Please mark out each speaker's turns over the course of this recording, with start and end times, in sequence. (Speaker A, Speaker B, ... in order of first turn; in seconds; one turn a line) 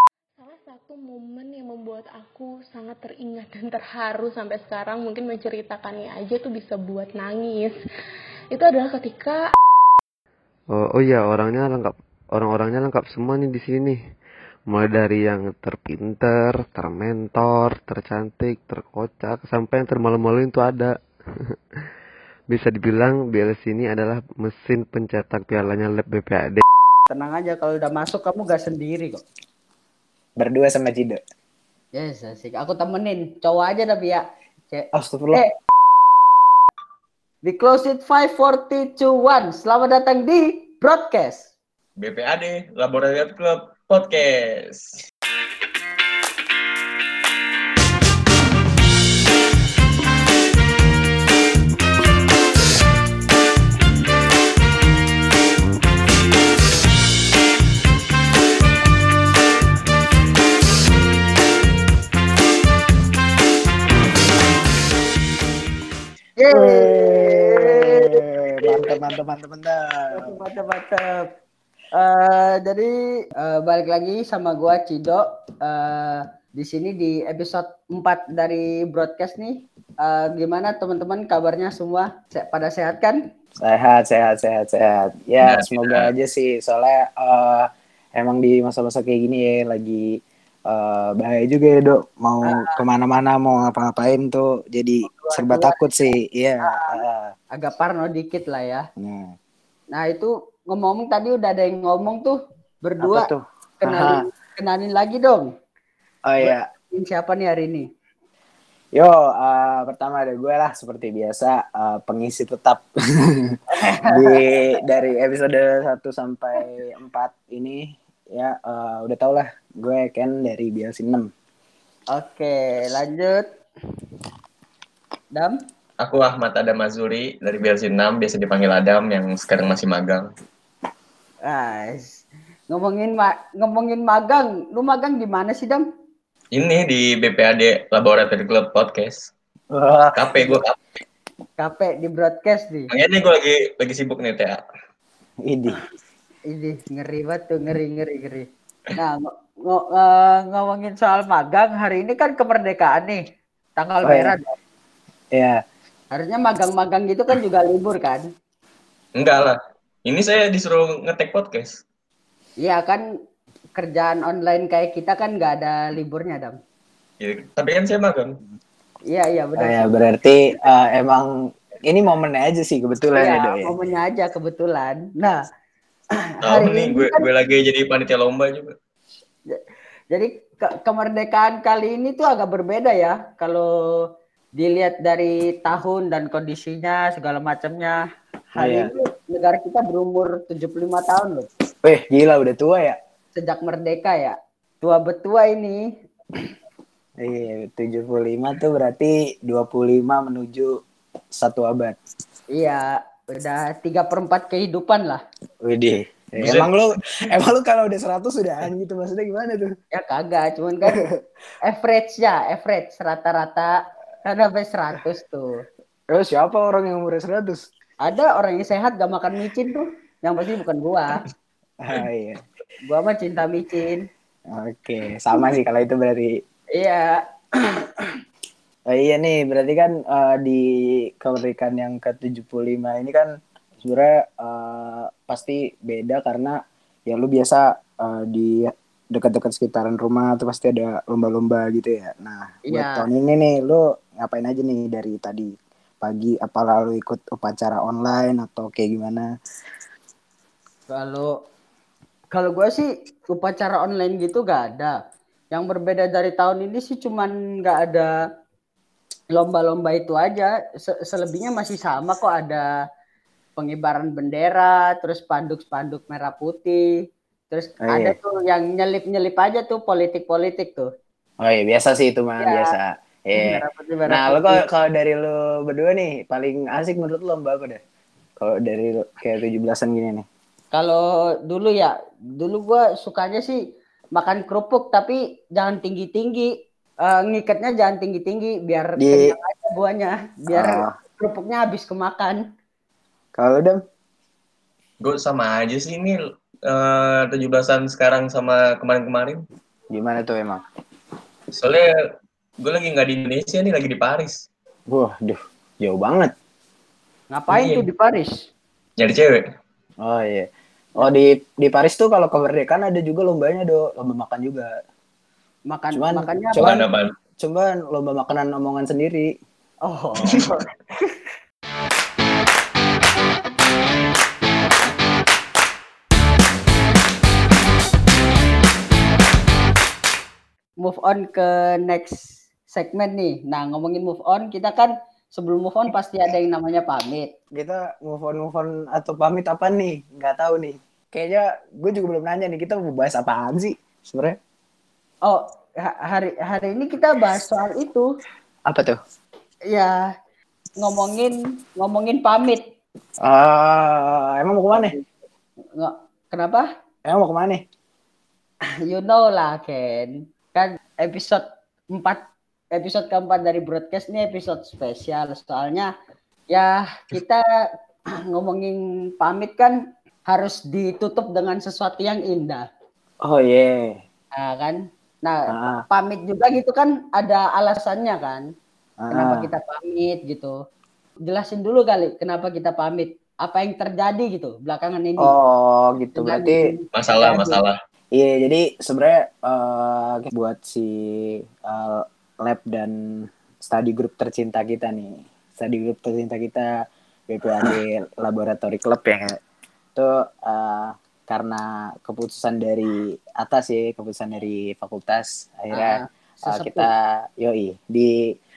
Speaker A: 0.4-7.8
Speaker A: 8.5-9.5
Speaker B: 10.7-14.0
Speaker B: 14.7-20.9
Speaker B: 22.5-26.6
Speaker C: 27.1-29.2
Speaker D: 30.4-31.2
Speaker C: 31.9-35.5
Speaker D: 34.9-35.4
Speaker C: 37.4-41.5
Speaker E: 42.0-45.0
Speaker C: 66.4-68.9
Speaker D: 66.5-70.3
Speaker C: 70.1-71.3
Speaker C: 72.0-83.2
Speaker D: 83.6-90.2
Speaker E: 85.4-86.1
Speaker D: 90.7-97.3
Speaker C: 92.5-92.8
Speaker C: 95.1-95.8
Speaker C: 96.7-97.0
Speaker C: 97.5-98.9
Speaker D: 99.0-99.3
Speaker C: 99.9-103.3
Speaker D: 103.0-104.2
Speaker C: 103.8-105.5
Speaker D: 106.3-106.6
Speaker C: 106.4-107.9
Speaker D: 108.9-121.3
Speaker C: 113.7-114.8
Speaker C: 122.1-123.5
Speaker E: 126.0-130.3
Speaker C: 131.4-135.8
Speaker E: 136.5-139.3
Speaker D: 139.7-140.6
Speaker E: 140.2-140.8
Speaker C: 141.6-142.9
Speaker E: 142.9-144.6
Speaker D: 145.4-145.8
Speaker C: 146.5-153.2
Speaker C: 153.8-154.6
Speaker D: 154.0-154.3
Speaker D: 155.3-155.6
Speaker C: 156.1-158.3
Speaker E: 159.2-161.8
Speaker C: 162.6-163.0
Speaker C: 163.8-166.6
Speaker E: 167.2-168.3
Speaker C: 169.1-169.9
Speaker D: 169.6-171.3
Speaker D: 171.9-173.7
Speaker C: 173.1-175.4
Speaker C: 176.2-177.2
Speaker E: 176.4-178.7
Speaker C: 179.5-183.7
Speaker C: 184.6-188.0
Speaker C: 188.6-191.5
Speaker D: 188.6-188.9
Speaker D: 191.8-193.0
Speaker C: 193.3-195.8
Speaker D: 197.2-200.7
Speaker D: 201.3-202.0
Speaker C: 202.5-205.2
Speaker D: 205.6-209.7
Speaker E: 206.4-206.7
Speaker C: 209.9-211.0
Speaker C: 211.6-213.7
Speaker C: 214.3-215.6
Speaker D: 216.1-217.6
Speaker C: 218.0-221.1
Speaker D: 221.8-222.4
Speaker C: 222.8-224.1
Speaker D: 224.5-226.4
Speaker C: 226.7-228.2
Speaker D: 228.9-233.3
Speaker D: 233.8-236.6
Speaker D: 237.1-249.3
Speaker C: 242.7-243.0
Speaker C: 250.9-251.3
Speaker C: 252.3-254.9
Speaker C: 255.5-258.1
Speaker C: 259.3-262.6
Speaker C: 263.6-266.9
Speaker C: 267.5-270.9
Speaker D: 267.8-268.1
Speaker D: 271.4-277.8
Speaker C: 272.4-272.6
Speaker C: 273.3-274.6
Speaker D: 278.4-280.2
Speaker C: 280.7-283.6
Speaker C: 284.1-286.5
Speaker C: 287.0-292.4
Speaker D: 289.0-289.3
Speaker D: 290.5-290.9
Speaker D: 293.3-293.8
Speaker E: 295.0-296.1
Speaker E: 296.6-299.4
Speaker D: 299.9-300.6
Speaker E: 301.5-301.9
Speaker E: 302.6-304.4
Speaker D: 304.9-306.3
Speaker C: 307.3-308.3
Speaker E: 307.5-307.9
Speaker E: 309.0-309.4
Speaker D: 310.0-314.7
Speaker C: 315.7-316.8
Speaker D: 315.9-316.8
Speaker E: 316.6-317.1
Speaker D: 317.4-319.3
Speaker C: 319.9-320.6
Speaker C: 330.8-337.3
Speaker D: 337.5-344.4
Speaker C: 345.2-348.1
Speaker D: 348.7-349.0
Speaker C: 349.7-349.9
Speaker C: 350.8-352.6
Speaker D: 353.2-354.9
Speaker C: 354.7-355.0
Speaker C: 355.8-356.7
Speaker D: 357.1-357.6
Speaker C: 358.9-362.2
Speaker C: 362.7-365.9
Speaker C: 366.5-367.4
Speaker C: 368.3-372.6
Speaker D: 373.2-374.0
Speaker C: 374.4-378.4
Speaker D: 375.5-375.8
Speaker D: 379.0-379.4
Speaker C: 379.1-380.5
Speaker C: 381.2-385.3
Speaker D: 385.2-386.6
Speaker C: 386.2-387.6
Speaker E: 386.9-387.7
Speaker D: 388.1-396.7
Speaker D: 397.3-399.4
Speaker D: 399.9-408.1
Speaker C: 405.8-406.9